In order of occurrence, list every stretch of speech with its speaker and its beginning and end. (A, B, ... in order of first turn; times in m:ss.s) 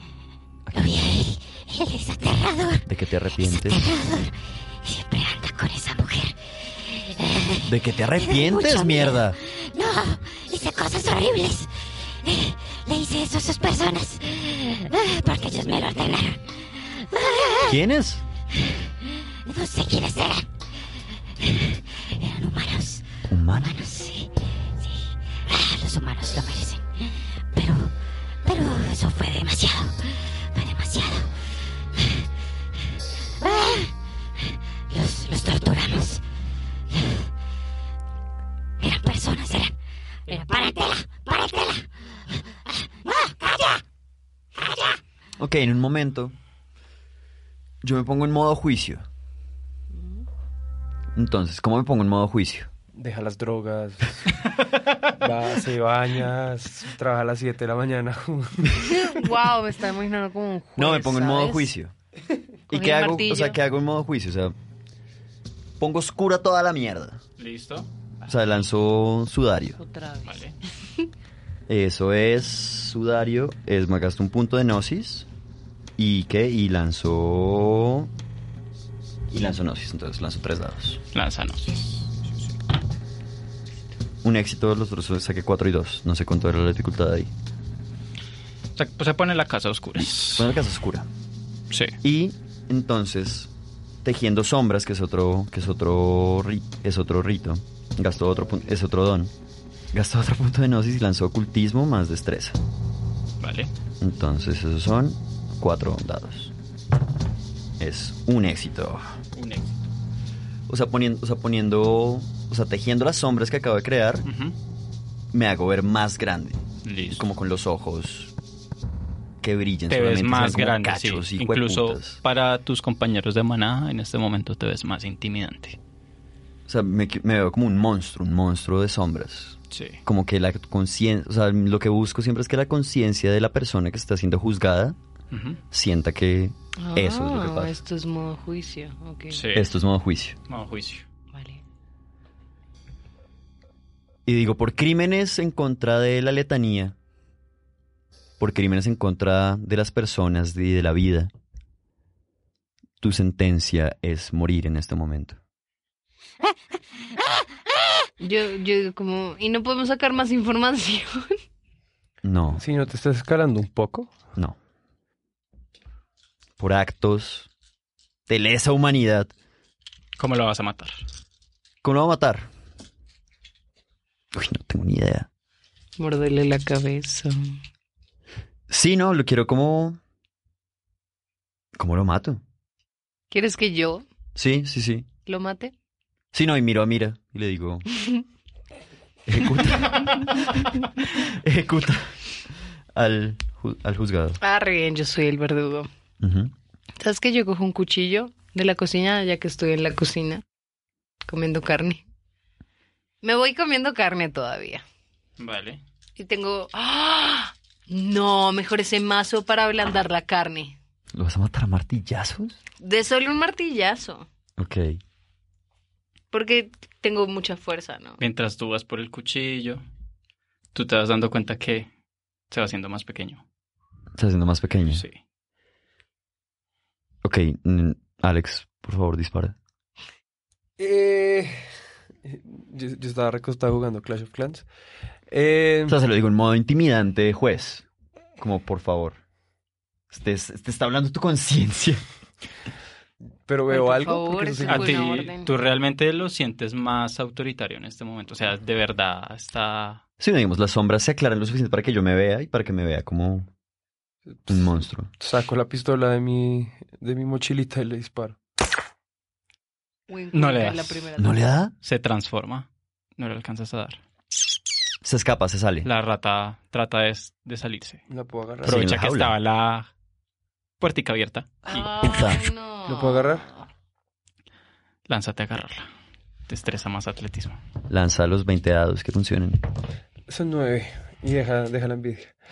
0:00.7-0:01.1 A
0:00.7-0:02.8 B
0:02.9-0:03.8 A
0:03.4-0:17.8 B
0:07.6-0:09.4 A
0:17.6-0:18.2 A
0:19.0-0:20.6 B
0:21.4-0:32.2 B
0:23.3-0:23.7 A
0:33.4-0:33.9 B
0:34.5-0:36.2 B
0:36.9-0:37.3 B
0:38.8-0:43.8 B
0:44.6-0:45.0 B
0:45.4-0:46.3 A
0:47.8-0:49.0 A
0:51.1-0:52.7 A
0:53.0-0:54.4 C
0:55.1-0:59.1 C
0:58.8-1:01.7 D
1:00.8-1:01.9 A
1:02.7-1:04.5 A
1:02.7-1:03.6 D
1:05.8-1:07.2 A
1:07.4-1:07.9 E
1:08.2-1:09.8 A
1:09.8-1:10.4 D
1:10.2-1:10.6 E
1:11.7-1:15.3 A
1:16.0-1:18.1 A
1:19.3-1:21.0 A
1:21.1-1:22.3 E
1:24.2-1:27.3 A
1:28.8-1:30.5 E
1:30.0-1:31.1 A
1:31.7-1:31.9 E
1:32.0-1:33.5 A
1:34.0-1:39.3 A
1:39.9-1:42.6 A
1:43.4-1:43.7 E
1:44.0-1:46.5 A
1:47.8-1:49.1 A
1:49.3-1:49.9 E
1:50.7-1:54.2 A
1:54.2-1:54.6 E
1:55.3-1:58.3 A
1:56.8-1:57.2 E
1:59.4-2:02.2 A
1:59.9-2:05.8 E
2:06.7-2:15.0 A
2:09.7-2:10.0 E
2:15.3-2:15.6 E
2:15.7-2:17.8 A
2:16.8-2:19.5 D
2:19.3-2:19.7 E
2:19.5-2:20.4 A
2:20.5-2:21.0 E
2:21.3-2:21.6 D
2:24.2-2:27.0 A
2:28.4-2:31.3 A
2:33.0-2:35.4 A
2:38.2-2:41.3 D
2:42.2-2:42.6 A
2:42.6-2:44.1 C
2:46.6-2:47.5 A
2:48.3-2:49.3 A
2:50.2-2:51.0 E
2:51.8-2:52.5 A
2:54.3-2:55.3 A
2:56.0-2:57.6 D
2:58.7-3:00.0 A
3:01.7-3:02.4 A
3:03.3-3:04.0 D
3:04.4-3:05.1 A
3:05.2-3:05.7 D
3:06.3-3:07.8 A
3:09.3-3:12.2 A
3:12.9-3:14.4 A
3:14.4-3:15.9 D
3:16.2-3:16.5 A
3:17.0-3:20.4 D
3:21.2-3:22.0 D
3:23.2-3:24.8 D
3:25.4-3:25.8 E
3:26.2-3:30.8 D
3:31.1-3:32.6 A
3:32.8-3:34.3 D
3:34.6-3:35.0 A
3:36.3-3:38.2 D
3:38.2-3:39.8 E
3:40.7-3:41.9 E
3:42.5-3:43.4 E
3:44.2-3:45.0 A
3:47.2-3:49.6 A
3:50.8-3:51.5 C
3:52.2-3:54.6 C
3:55.3-3:56.0 C
3:55.9-3:57.8 A
3:58.4-3:59.2 A
4:00.1-4:02.0 A
4:03.5-4:05.0 C
4:03.7-4:05.5 D
4:04.7-4:10.0 E
4:10.2-4:13.5 A
4:14.3-4:18.4 C
4:14.5-4:15.1 A
4:20.1-4:21.4 D
4:20.3-4:21.0 E
4:21.2-4:21.7 A
4:21.8-4:24.0 E
4:25.0-4:25.9 A
4:25.8-4:28.0 E
4:28.1-4:28.9 C
4:28.6-4:29.3 A
4:28.6-4:29.9 E
4:30.8-4:31.8 E
4:31.6-4:33.7 D
4:32.0-4:32.4 A
4:32.8-4:33.4 C
4:35.1-4:35.9 E
4:36.5-4:37.6 E
4:37.9-4:39.6 A
4:40.3-4:42.3 C